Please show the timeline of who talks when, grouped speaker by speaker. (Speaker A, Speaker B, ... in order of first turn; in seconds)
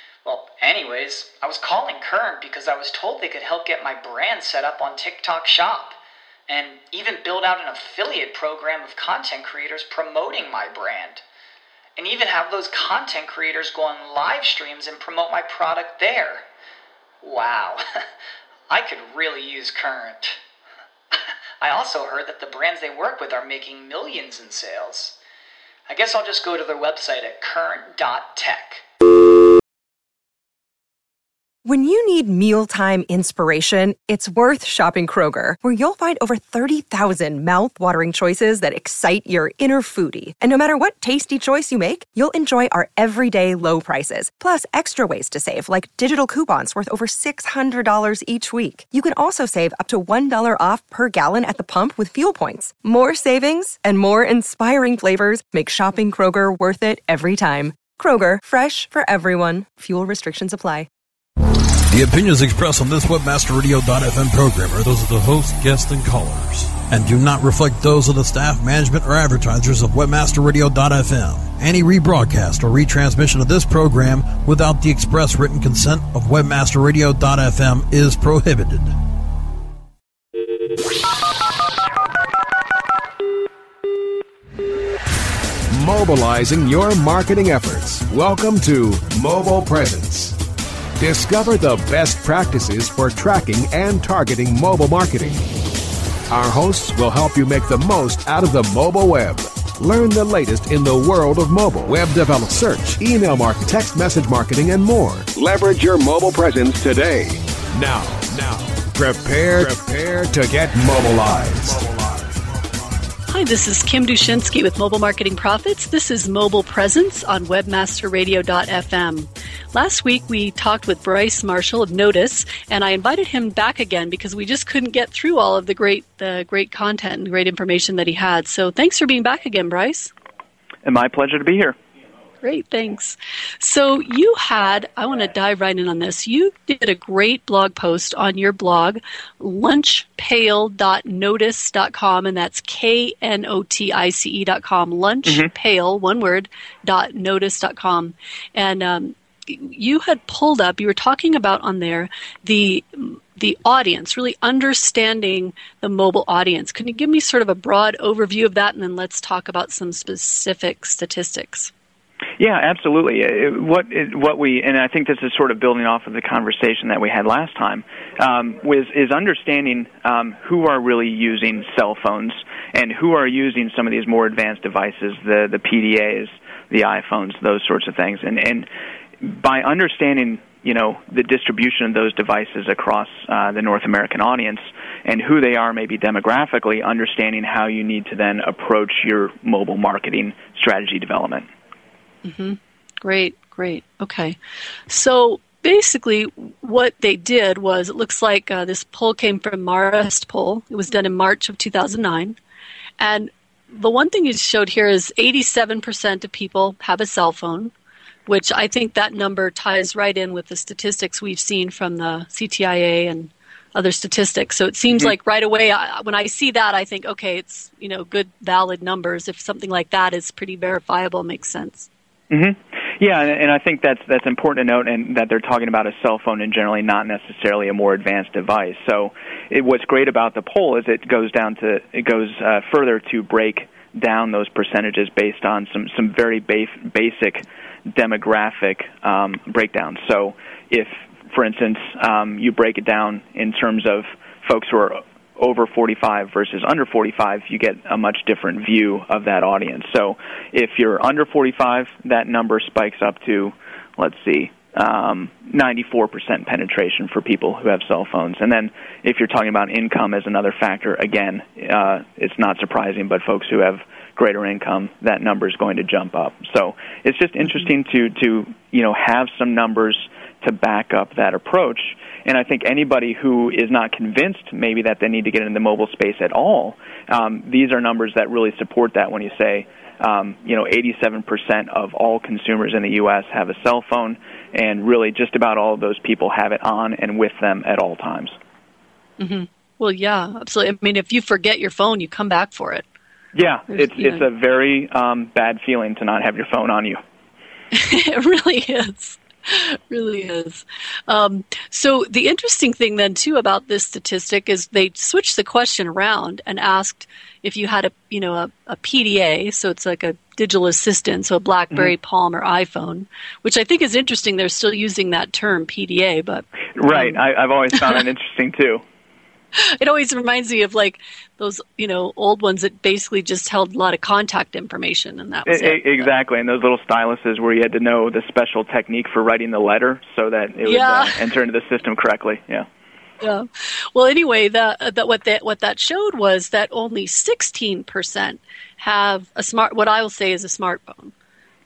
Speaker A: 0.2-11.2, 12.0-16.4, 17.2-17.8, 18.7-20.4, 21.6-25.1, 25.9-28.8
Speaker B: 31.6-60.9
Speaker C: 61.9-79.0
Speaker D: 85.7-90.4, 91.0-95.4, 96.3-111.9
Speaker E: 113.3-130.1, 132.4-161.7, 192.2-202.4, 203.0-207.7, 208.3-221.9, 289.2-292.8, 293.7-294.2, 297.7-317.2, 319.6-326.1, 330.6-331.2, 333.2-341.1
Speaker F: 130.8-131.8, 162.4-178.7, 179.2-191.5, 222.3-288.3, 293.3-297.0, 316.8-318.8, 325.5-332.6